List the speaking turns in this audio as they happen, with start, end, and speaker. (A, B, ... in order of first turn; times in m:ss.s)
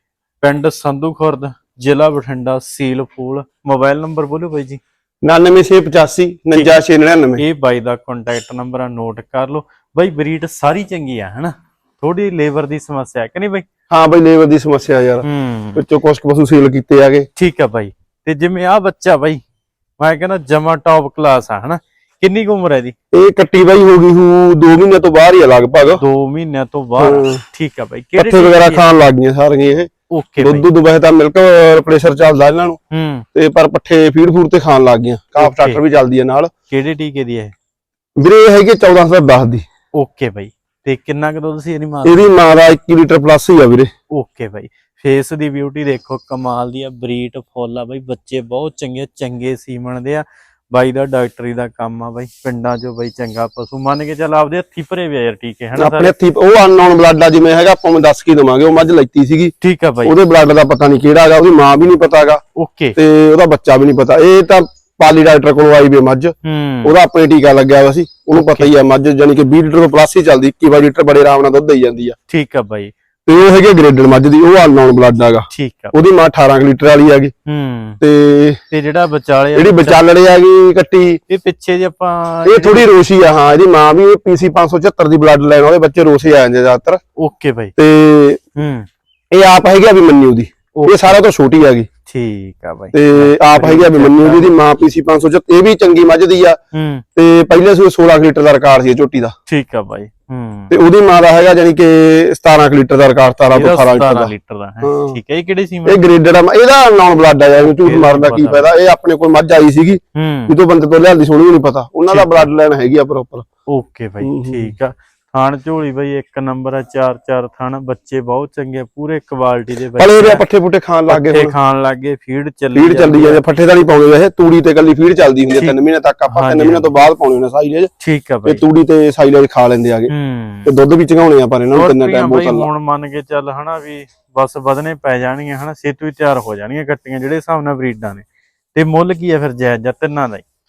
0:00.4-0:04.8 A
0:05.2-0:07.4 B
0:06.5-0:06.8 A
0:07.4-0:13.6 A
0:13.9-0:17.3 B
0:15.2-0:15.8 A
0:17.4-0:19.4 A
0:20.0-0:22.9 A
0:23.1-0:26.0 B
0:26.0-0:28.8 A
0:27.0-0:27.4 B
0:28.2-0:32.8 B
0:30.1-0:30.7 A
0:32.9-0:33.2 A
0:33.3-0:36.5 B
0:35.4-0:35.8 A
0:36.7-0:37.5 A
0:38.2-0:39.6 B
0:39.9-0:42.3 A
0:42.0-0:43.9 B
0:44.1-0:56.1 A
0:55.8-0:59.5 B
0:59.6-1:00.1 A
1:00.0-1:02.4 B
1:02.6-1:03.0 A
1:03.0-1:12.2 B
1:06.4-1:06.9 A
1:08.3-1:08.7 A
1:12.3-1:12.9 A
1:13.3-1:17.3 B
1:15.5-1:15.9 A
1:17.4-1:18.0 A
1:18.0-1:18.6 B
1:18.7-1:20.0 A
1:19.5-1:21.2 B
1:21.3-1:22.9 A
1:22.4-1:27.0 B
1:27.2-1:27.7 A
1:27.8-1:28.4 B
1:28.6-1:28.9 A
1:29.3-1:31.9 B
1:30.7-1:31.2 A
1:32.1-1:34.5 A
1:32.9-1:36.6 B
1:36.7-1:37.0 A
1:37.2-1:39.3 B
1:39.5-1:40.7 A
1:40.7-1:44.3 B
1:43.5-1:46.0 A
1:44.8-1:45.2 B
1:45.8-1:53.4 B
1:47.8-1:48.7 A
1:50.1-1:50.5 A
1:52.1-1:52.5 A
1:53.7-2:00.4 A
1:54.2-1:54.7 B
2:00.0-2:01.5 B
2:01.1-2:03.4 A
2:02.7-2:07.9 B
2:06.3-2:06.9 A
2:08.0-2:08.6 A
2:08.4-2:10.1 B
2:10.1-2:10.7 A
2:10.6-2:12.7 B
2:11.7-2:20.4 A